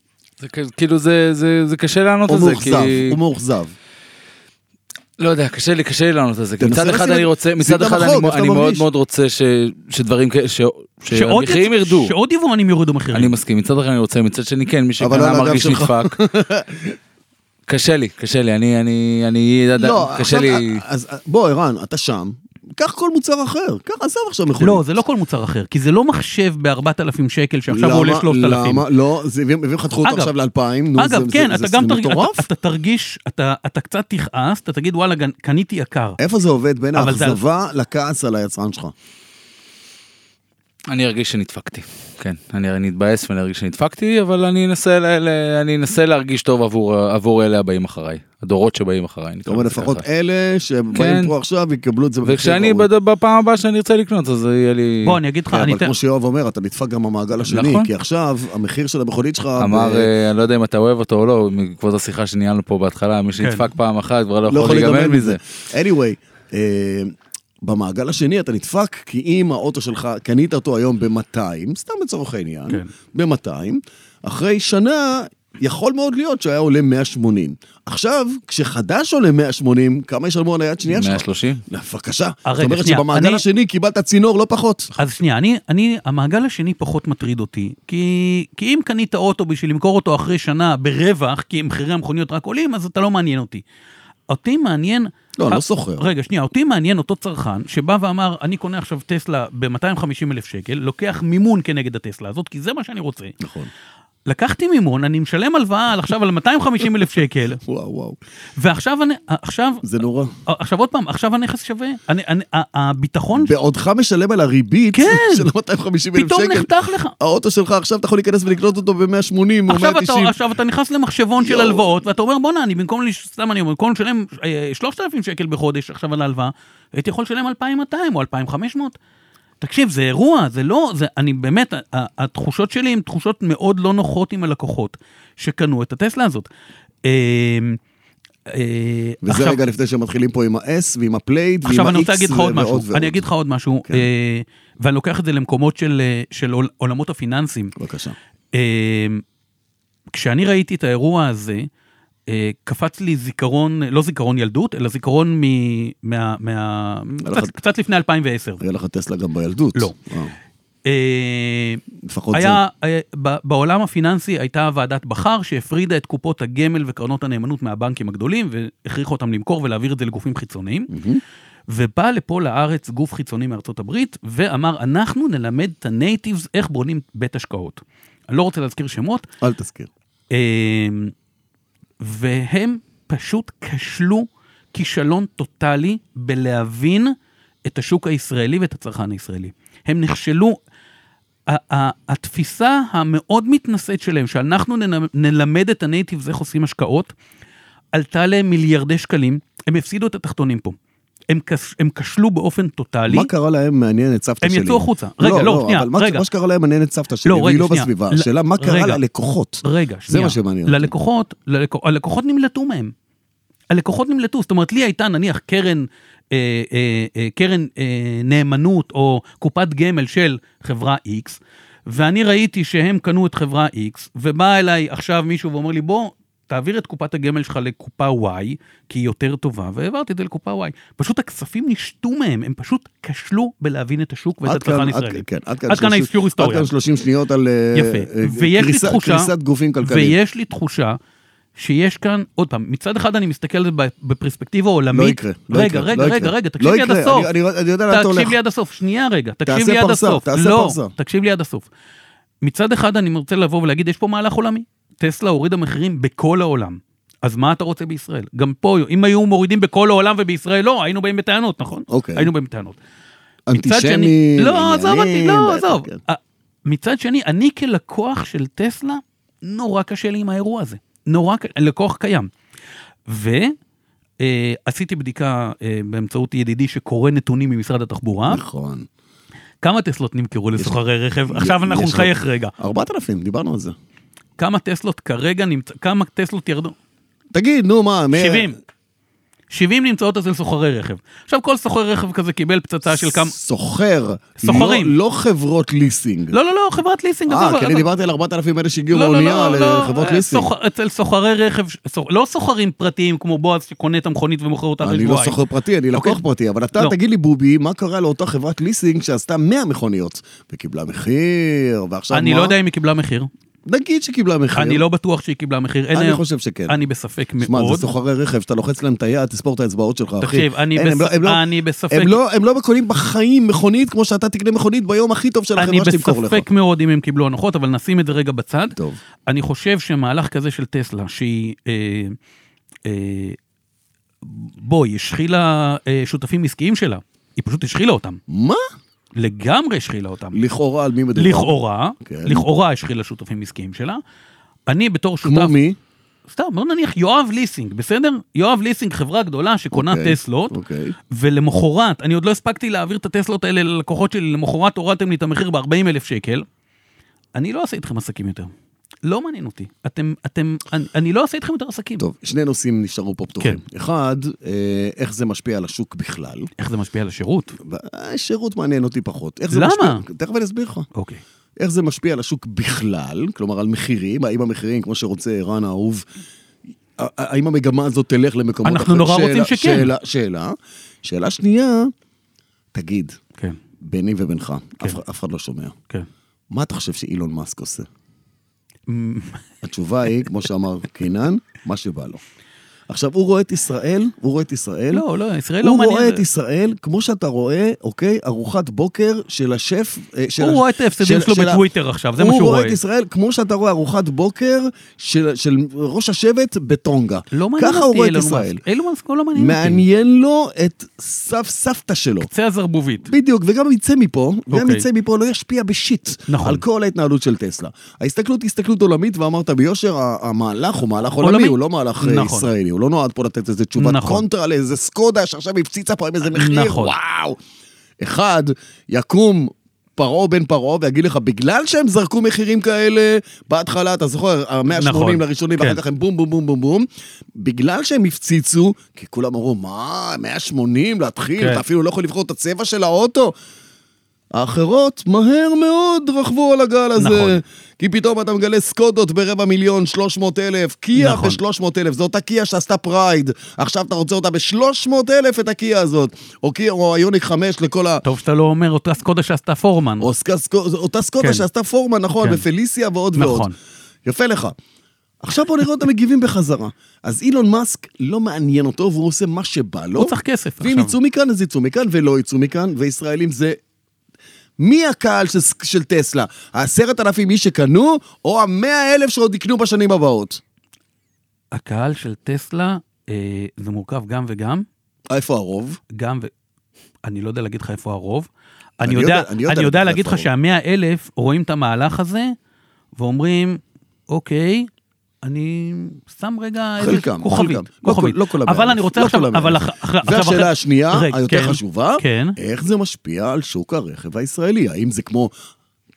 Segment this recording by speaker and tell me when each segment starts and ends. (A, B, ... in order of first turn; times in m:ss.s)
0:00.4-0:03.2 A
0:02.3-0:03.7 B
0:05.2-0:12.1 A
0:06.6-0:08.8 B
0:11.1-0:13.3 C
0:13.1-0:16.2 A
0:15.0-0:17.0 B
0:17.7-0:20.8 A
0:19.8-0:24.8 B
0:24.6-0:28.8 C
0:27.7-0:32.4 B
0:30.0-0:30.3 C
0:31.0-0:36.2 C
0:36.2-0:38.9 B
0:36.9-0:37.4 C
0:40.9-0:50.0 A
0:49.4-0:52.8 B
0:50.9-0:51.3 A
0:52.2-0:55.2 A
0:55.0-0:55.9 C
0:55.5-1:00.1 B
0:57.4-0:57.9 A
0:59.6-1:05.4 A
1:03.4-1:03.7 C
1:04.5-1:24.9 B
1:20.9-1:21.6 A
1:22.4-1:23.4 C
1:25.0-1:33.6 C
1:34.3-1:43.4 C
1:35.4-1:36.1 B
1:43.4-1:43.7 B
1:44.3-1:47.6 C
1:47.6-1:48.2 B
1:48.6-1:49.8 C
1:49.8-1:50.3 B
1:50.5-1:53.5 C
1:53.4-2:00.3 B
1:54.9-1:55.5 C
1:56.1-1:57.1 C
1:59.7-2:09.0 C
2:01.4-2:01.9 B
2:09.6-2:16.5 C
2:17.0-2:17.8 C
2:18.5-2:19.6 C
2:19.2-2:23.2 B
2:21.6-2:27.7 C
2:27.8-2:28.2 B
2:28.5-2:29.2 C
2:30.1-2:31.7 C
2:32.3-2:38.6 C
2:37.2-2:37.5 B
2:38.6-2:40.3 B
2:40.8-2:41.8 C
2:42.0-2:42.6 B
2:42.3-2:50.9 C
2:50.9-2:51.2 B
2:51.7-2:59.2 C
2:59.4-2:59.9 B
3:00.3-3:01.1 C
3:02.0-3:07.1 C
3:07.6-3:10.6 C
3:11.5-3:17.1 C
3:17.9-3:20.8 C
3:21.3-3:23.3 C
3:23.1-3:30.9 B
3:24.4-3:26.2 C
3:27.2-3:29.0 C
3:29.6-3:32.9 C
3:33.7-3:56.7 C
3:54.4-4:00.2 B
3:57.8-3:59.3 C
3:59.8-4:01.0 C
4:01.6-4:07.3 C
4:04.9-4:08.4 B
4:07.9-4:11.6 C
4:09.4-4:10.9 B
4:12.4-4:22.8 C
4:21.9-4:22.3 B
4:23.5-4:26.0 B
4:23.5-4:32.3 C
4:33.1-4:33.5 C
4:34.2-4:38.4 C
4:38.3-4:38.9 B
4:39.6-4:42.5 C
4:41.3-4:43.7 B
4:44.4-4:46.7 C
4:47.3-4:48.5 B
4:48.1-4:48.6 C
4:49.5-4:53.3 C
4:52.9-4:56.4 B
4:54.4-4:54.9 C
4:56.3-4:57.8 C
4:57.3-5:00.5 B
4:58.9-5:05.4 C
5:04.8-5:12.5 B
5:05.9-5:06.2 C
5:12.1-5:13.3 C
5:13.7-5:14.8 B
5:14.6-5:17.9 C
5:15.9-5:16.8 B
5:17.4-5:26.4 B
5:20.2-5:22.2 C
5:25.6-5:32.2 C
5:28.7-5:29.0 B
5:32.8-5:33.4 C
5:34.2-5:38.2 C
5:38.3-5:38.6 B
5:39.2-5:40.4 C
5:40.3-5:42.4 B
5:41.2-5:44.0 C
5:44.7-5:45.5 C
5:45.2-5:45.8 B
5:46.3-5:50.5 C
5:49.7-5:51.0 B
5:51.1-5:56.4 C
5:57.4-5:58.5 C
5:59.0-6:02.0 C
6:02.0-6:06.5 B
6:06.6-6:07.5 C
6:07.6-6:10.9 B
6:09.5-6:10.0 C
6:10.9-6:11.2 C
6:11.6-6:16.0 B
6:17.0-6:21.9 B
6:18.6-6:19.9 C
6:22.7-6:23.2 B
6:23.8-6:25.7 B
6:26.5-6:27.9 B
6:28.9-6:29.4 C
6:29.6-6:32.2 B
6:32.9-6:35.0 B
6:34.9-6:36.2 C
6:35.6-6:41.6 B
6:40.4-6:42.8 C
6:42.2-6:48.6 B
6:47.3-6:49.8 C
6:49.4-6:52.3 B
6:52.2-6:53.1 C
6:53.0-7:07.4 B
6:54.5-6:54.8 C
6:56.3-6:56.6 C
7:01.2-7:02.5 C
7:03.8-7:04.2 C
7:06.3-7:06.9 C
7:08.0-7:23.3 B
7:14.8-7:15.8 C
7:21.4-7:21.6 C
7:24.3-7:38.0 B
7:27.0-7:27.4 C
7:31.0-7:31.4 C
7:38.0-7:40.1 C
7:40.0-7:43.5 B
7:41.2-7:41.4 C
7:42.2-7:42.4 C
7:43.2-7:43.5 C
7:44.0-7:44.5 B
7:45.2-7:53.6 B
7:50.0-7:50.9 C
7:54.6-8:00.4 B
8:01.5-8:04.6 C
8:05.1-8:05.8 B
8:05.9-8:06.3 C
8:07.0-8:08.3 C
8:08.8-8:12.3 C
8:08.8-8:10.3 B
8:13.0-8:14.7 C
8:15.2-8:22.4 C
8:16.8-8:25.3 B